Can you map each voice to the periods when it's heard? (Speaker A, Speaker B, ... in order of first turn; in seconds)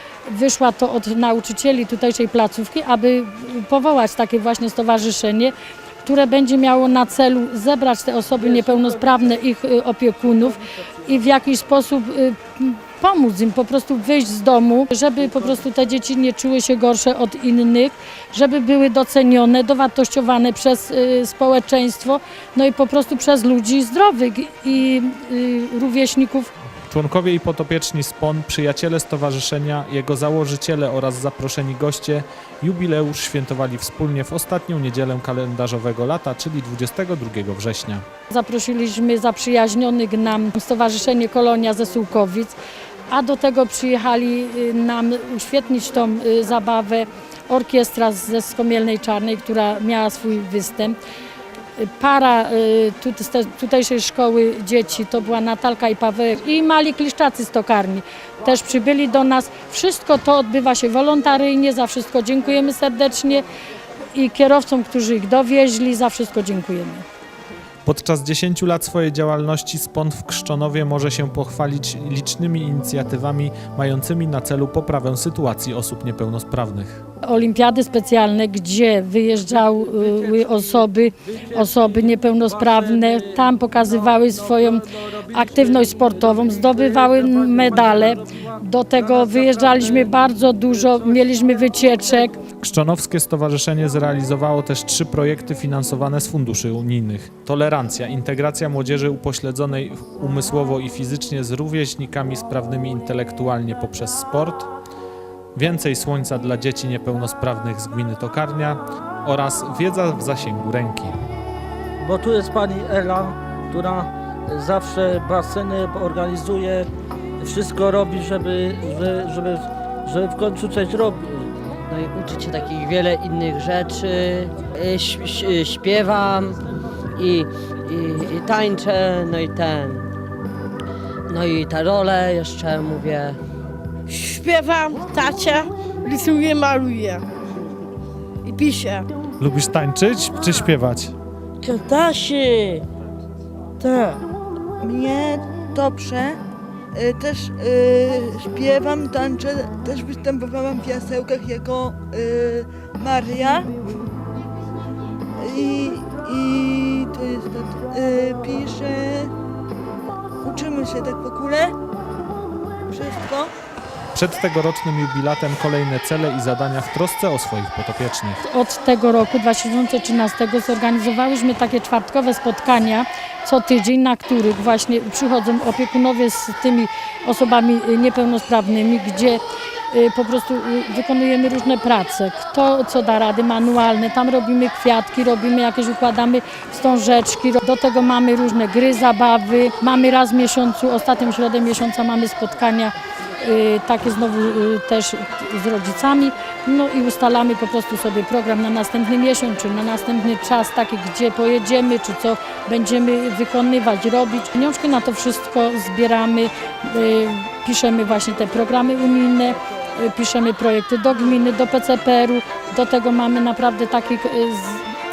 Speaker A: 0.2-26.5, 38.3-42.5, 43.1-51.0, 51.8-63.5, 64.1-67.0, 77.2-92.4, 168.4-214.9
Speaker B: 26.9-38.0, 67.9-77.0, 92.6-104.7, 105.5-111.1, 139.4-141.1, 164.1-168.4
Speaker C: 86.6-88.0, 112.0-116.9, 117.4-121.5
Speaker D: 121.9-126.6, 127.2-130.1, 131.3-133.4
Speaker E: 134.1-137.2, 138.4-139.1, 143.8-144.1
Speaker F: 144.8-146.4, 146.9-153.7, 155.4-159.3, 160.4-161.8, 162.9-163.5